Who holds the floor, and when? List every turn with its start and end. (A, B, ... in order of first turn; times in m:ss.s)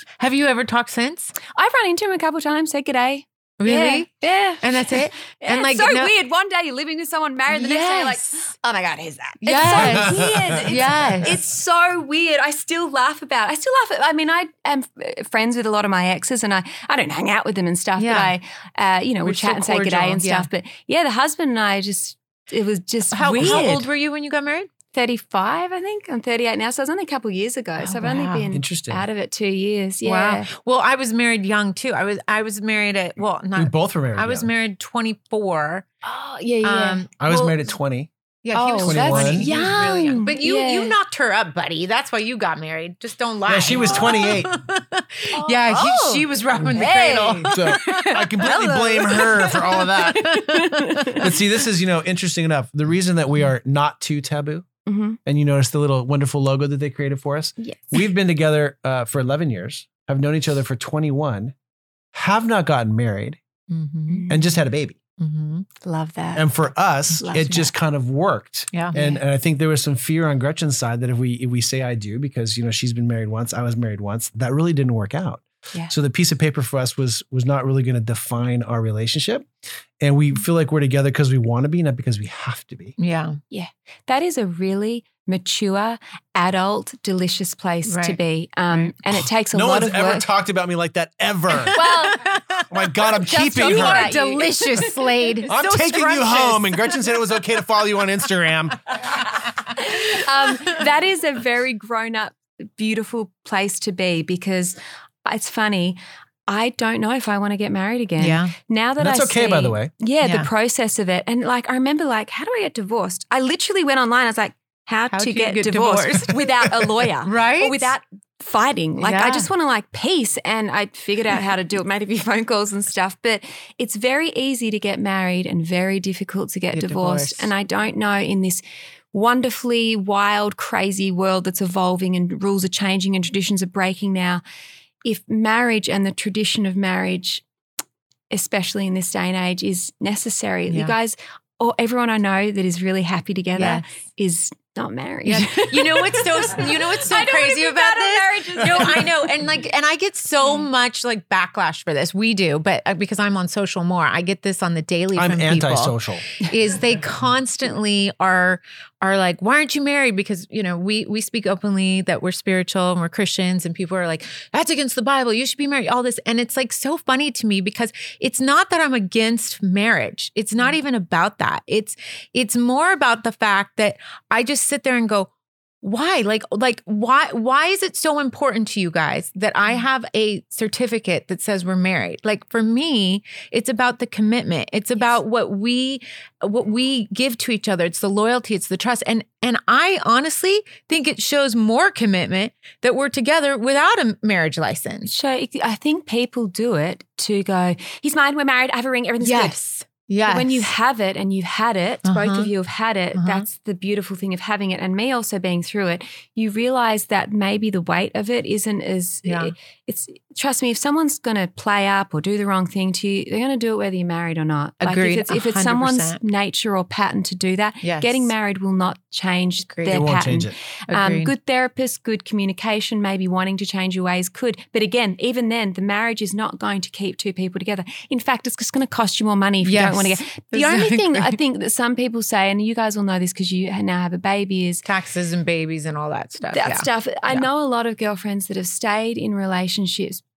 0:00.2-0:01.3 A
0:01.5-0:23.9 B
0:03.6-0:04.1 A
0:04.6-0:06.1 A
0:07.5-0:08.5 A
0:09.4-0:11.4 A
0:09.8-0:10.6 C
0:18.0-0:18.3 A
0:19.2-0:20.5 A
0:23.1-0:24.7 A
0:24.9-0:30.5 B
0:27.8-0:28.6 A
0:28.5-0:29.0 C
0:30.0-0:35.8 A
0:33.6-0:34.5 C
0:36.0-0:37.0 B
0:36.6-0:37.6 A
0:37.2-0:38.1 C
0:38.4-0:48.5 A
0:38.5-0:41.0 B
0:38.8-0:39.5 C
0:43.5-0:44.6 C
0:45.3-0:51.3 B
0:46.6-0:50.4 C
0:49.1-0:51.3 A
0:51.1-0:54.7 C
0:54.9-0:55.2 B
0:55.2-1:01.5 C
0:57.6-0:58.0 B
1:02.1-1:03.4 C
1:03.7-1:04.2 A
1:04.1-1:04.5 B
1:04.3-1:05.0 C
1:05.2-1:05.7 A
1:05.8-1:06.5 B
1:06.3-1:19.5 C
1:07.2-1:07.7 B
1:08.9-1:09.2 B
1:20.0-1:22.9 C
1:23.0-1:23.4 A
1:23.5-1:30.2 B
1:27.8-1:28.9 A
1:29.1-1:31.8 C
1:31.6-1:32.3 B
1:31.7-1:36.8 A
1:32.7-1:34.1 C
1:33.2-1:35.3 B
1:35.5-1:38.8 C
1:39.6-1:40.8 A
1:39.7-2:08.6 B
1:48.2-1:48.5 A
1:49.0-1:49.9 C
1:50.2-1:50.5 A
1:55.1-1:56.4 A
1:57.2-1:57.9 A
1:59.0-1:59.5 A
2:06.7-2:07.5 A
2:09.1-2:14.4 B
2:15.0-2:17.4 B
2:18.3-2:29.3 B
2:20.7-2:20.9 A
2:23.5-2:23.8 A
2:25.2-2:55.3 A
2:35.2-2:36.2 C
2:55.8-3:15.1 A
3:15.1-3:19.6 B
3:19.2-3:20.7 A
3:20.2-3:54.8 B
3:22.0-3:22.5 A
3:23.2-3:23.4 A
3:29.2-3:29.5 A
3:34.8-3:36.2 A
3:37.8-3:38.3 A
3:39.7-3:40.0 A
3:39.9-3:40.5 C
3:40.9-3:41.3 A
3:49.6-3:51.4 A
3:54.8-3:57.5 A
3:56.5-4:00.2 B